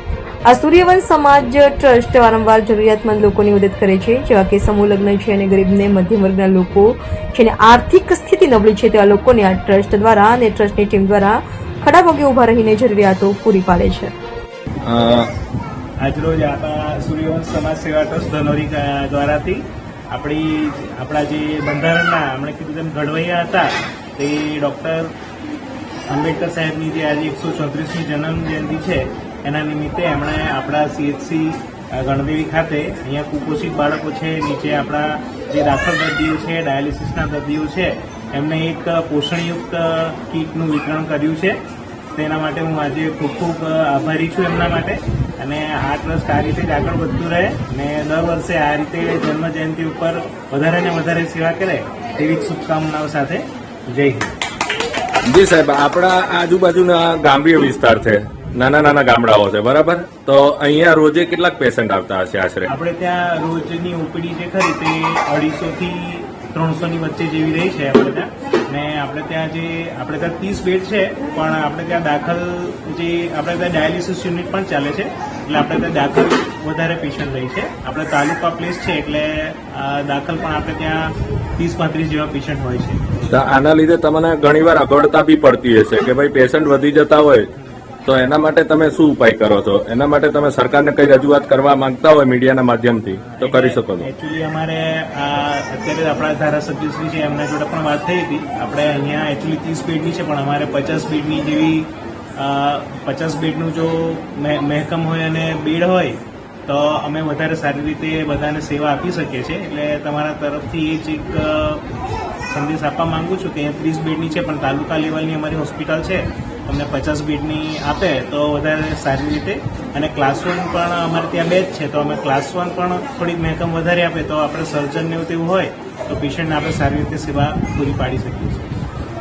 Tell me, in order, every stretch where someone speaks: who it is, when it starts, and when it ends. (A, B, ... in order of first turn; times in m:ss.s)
0:00.5-0:14.1 A
0:14.8-0:15.3 B
0:16.0-0:25.2 C
0:26.1-0:41.6 C
0:42.2-0:54.3 C
0:55.3-1:02.7 B
1:02.7-1:23.1 C
1:23.3-1:27.5 B
1:28.1-1:34.1 B
1:33.2-1:51.8 C
1:52.5-2:08.7 C